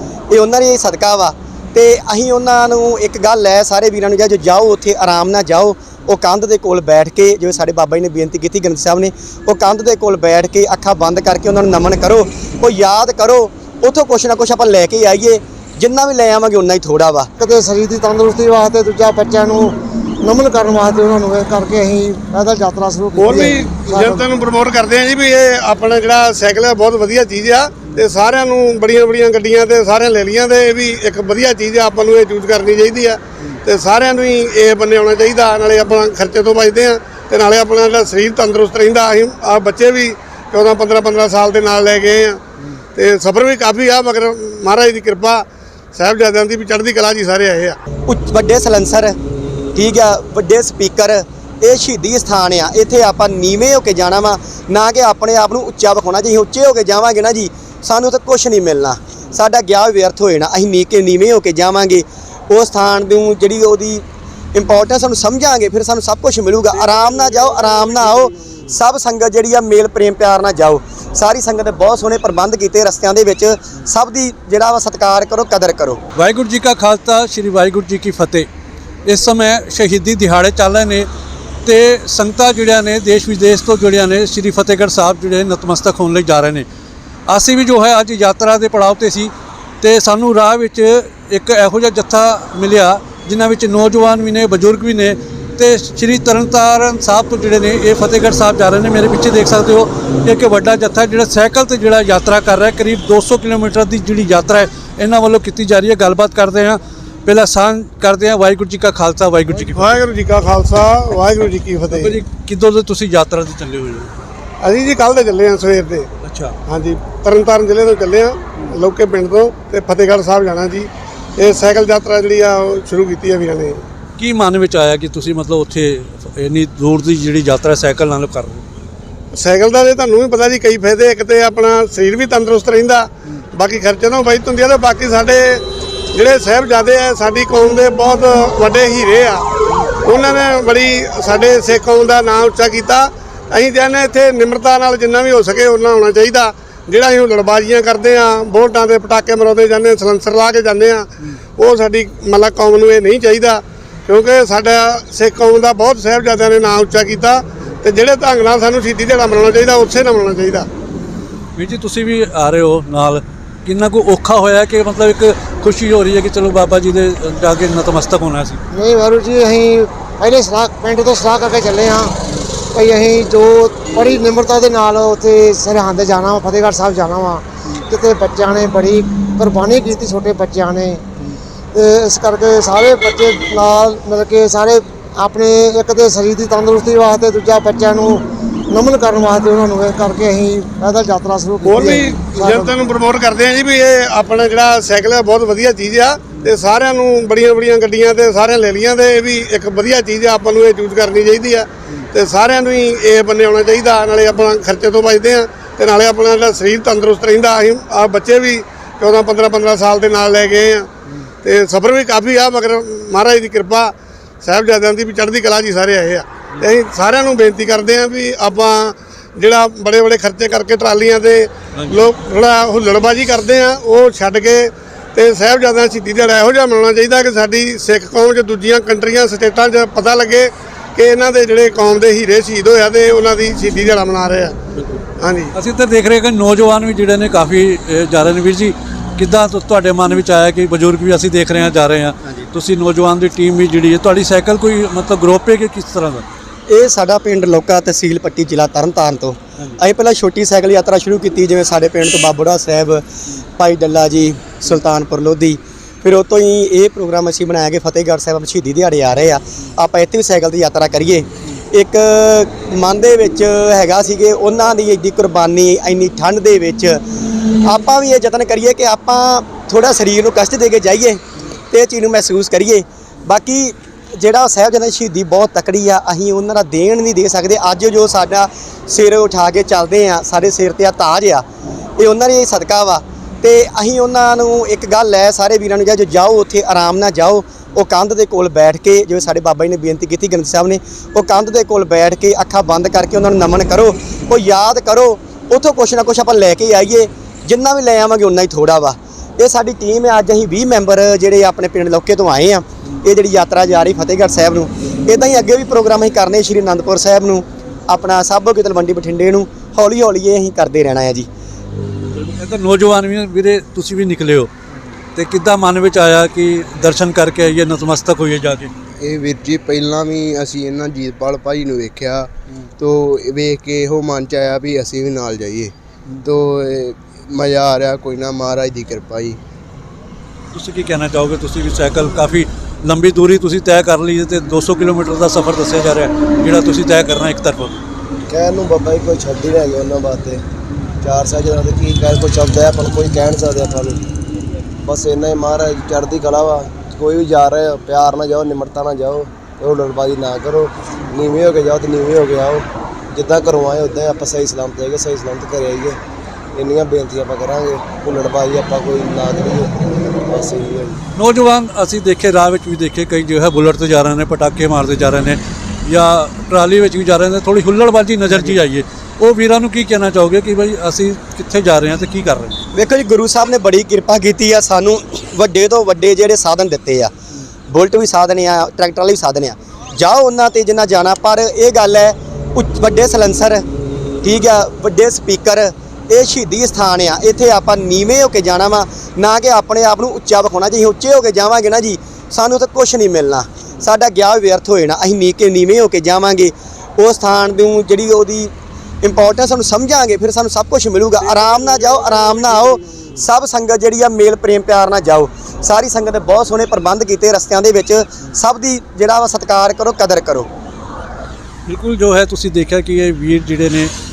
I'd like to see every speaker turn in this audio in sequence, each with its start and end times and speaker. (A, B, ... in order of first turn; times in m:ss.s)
0:00.3-0:17.3 A
0:17.4-0:24.3 B
0:23.2-0:42.4 C
0:43.0-0:47.8 C
0:48.1-0:49.2 A
0:49.8-1:04.0 A
1:04.5-1:16.0 A
1:16.2-1:18.5 D
1:19.1-1:21.1 D
1:21.6-1:26.6 D
1:27.3-1:29.3 D
1:29.8-1:50.0 D
1:49.7-1:52.2 C
1:51.9-1:54.1 D
1:54.6-1:56.1 C
1:56.2-1:56.6 D
1:56.7-2:03.8 C
2:04.2-2:08.7 D
2:09.3-2:19.5 C
2:20.0-2:40.7 C
2:41.6-2:48.6 D
2:48.7-2:52.2 B
2:52.7-3:01.0 B
3:01.7-3:12.9 B
3:11.6-3:30.9 C
3:31.4-3:54.6 C
3:54.8-3:55.0 D
3:55.2-3:55.5 C
3:55.6-4:06.2 D
4:06.7-4:13.0 A
4:13.6-4:27.0 A
4:27.6-4:41.4 A
4:42.0-5:11.3 A
5:12.1-5:14.5 D
5:15.2-5:18.7 D
5:19.0-5:29.4 E
5:30.5-5:37.8 D
5:38.3-5:40.5 F
5:41.0-5:44.1 F
5:44.8-5:56.0 F
5:56.5-6:01.0 F
6:01.2-6:12.6 D
6:12.7-6:17.1 A
6:17.7-6:23.6 A
6:24.2-6:50.5 A
6:51.7-6:53.9 D